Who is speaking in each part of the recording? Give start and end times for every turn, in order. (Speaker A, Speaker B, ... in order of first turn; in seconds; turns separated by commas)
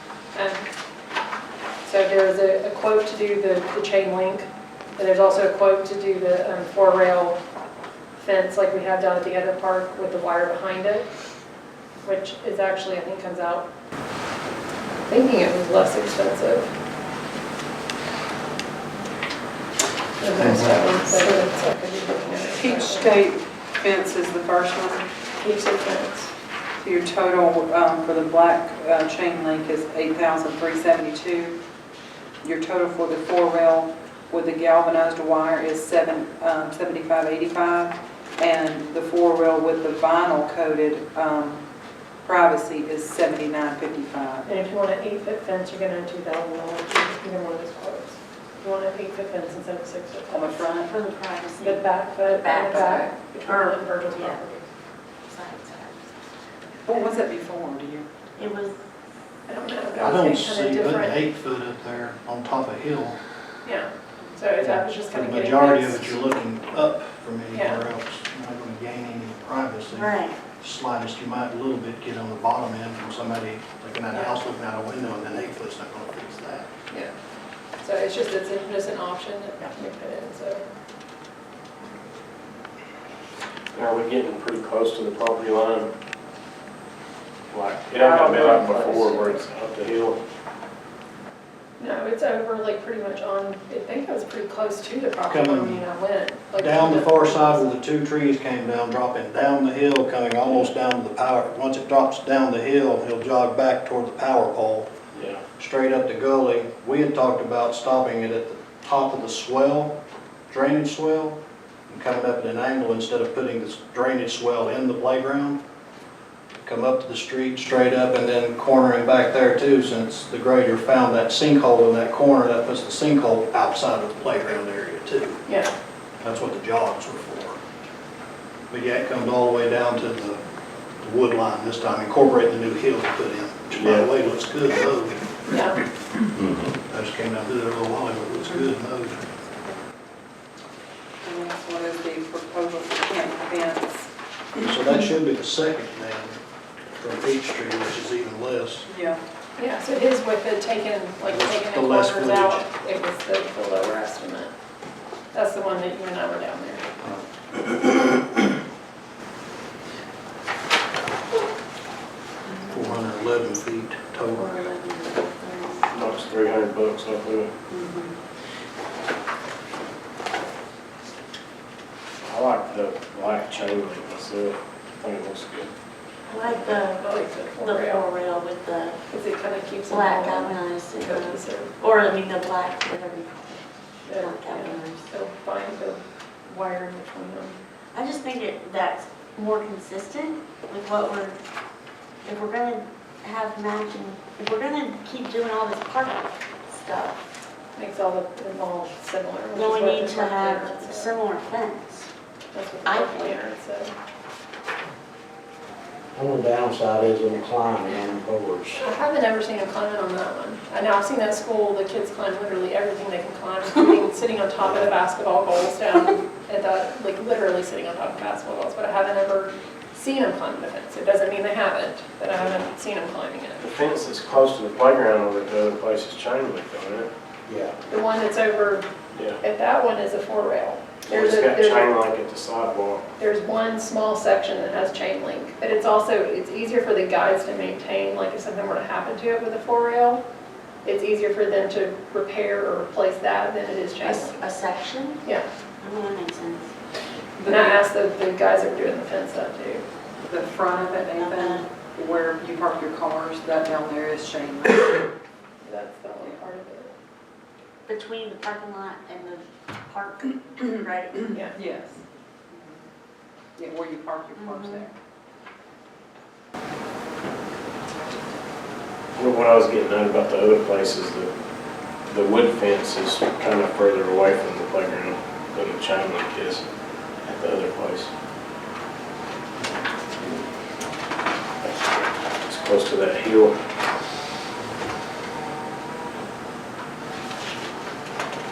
Speaker A: 0.3-0.7, Speaker A: 1.9-4.5, Speaker A: 5.0-7.4, Speaker A: 8.2-11.1, Speaker A: 12.0-13.7, Speaker A: 15.1-16.7, Speaker A: 20.2-23.1, Speaker B: 22.6-25.1, Speaker A: 25.4-26.3, Speaker B: 26.8-31.6, Speaker B: 32.4-41.6, Speaker B: 42.2-44.5, Speaker A: 44.5-50.6, Speaker B: 50.3-50.9, Speaker C: 50.9-54.4, Speaker A: 51.6-54.6, Speaker C: 55.3-56.2, Speaker B: 56.9-58.1, Speaker C: 58.4-58.8, Speaker A: 59.5-61.2, Speaker D: 60.0-63.2, Speaker A: 63.6-66.3, Speaker D: 64.6-76.7, Speaker A: 67.5-67.8, Speaker C: 69.9-70.4, Speaker A: 74.1-74.4, Speaker A: 77.8-80.6, Speaker E: 83.7-85.9, Speaker E: 87.5-90.2, Speaker A: 88.0-89.4, Speaker A: 91.8-97.7, Speaker D: 95.3-95.9, Speaker D: 96.5-104.9, Speaker E: 105.1-105.4, Speaker D: 105.6-109.9, Speaker D: 110.5-111.4, Speaker D: 111.9-115.6, Speaker D: 116.6-125.4, Speaker D: 126.2-127.6, Speaker D: 128.7-130.4, Speaker D: 131.0-135.2, Speaker E: 133.7-134.1, Speaker A: 135.5-135.8, Speaker D: 136.9-139.2, Speaker B: 141.2-144.1, Speaker D: 144.6-146.4, Speaker D: 147.0-148.9, Speaker B: 148.9-149.2, Speaker A: 149.6-154.5, Speaker D: 151.3-152.6, Speaker A: 155.3-156.8, Speaker D: 157.0-158.1, Speaker C: 162.5-162.9, Speaker D: 162.7-164.5, Speaker C: 164.3-166.1, Speaker E: 165.9-167.5, Speaker C: 167.7-168.1, Speaker E: 172.2-175.7, Speaker C: 176.3-179.0, Speaker A: 176.4-178.1, Speaker A: 179.1-181.8, Speaker C: 179.9-185.0, Speaker A: 184.1-187.6, Speaker C: 187.9-191.4, Speaker C: 192.2-197.2, Speaker A: 197.8-201.2, Speaker C: 199.5-202.1, Speaker A: 202.5-203.9, Speaker C: 202.8-203.4, Speaker F: 206.2-208.8, Speaker A: 208.8-223.6, Speaker E: 223.6-227.1, Speaker A: 227.9-228.9, Speaker E: 229.1-229.4, Speaker A: 229.4-231.9, Speaker E: 231.1-233.1, Speaker A: 233.2-240.2, Speaker A: 240.8-244.4, Speaker C: 244.0-245.2, Speaker C: 245.8-246.7, Speaker B: 247.4-247.8, Speaker A: 247.4-249.8, Speaker B: 250.3-255.1, Speaker C: 251.2-251.7, Speaker A: 255.6-256.9, Speaker C: 257.9-261.4, Speaker B: 261.5-262.8, Speaker B: 263.6-264.9, Speaker C: 264.4-264.9, Speaker E: 269.2-271.3, Speaker E: 272.1-276.6, Speaker E: 277.2-278.1, Speaker E: 281.6-283.5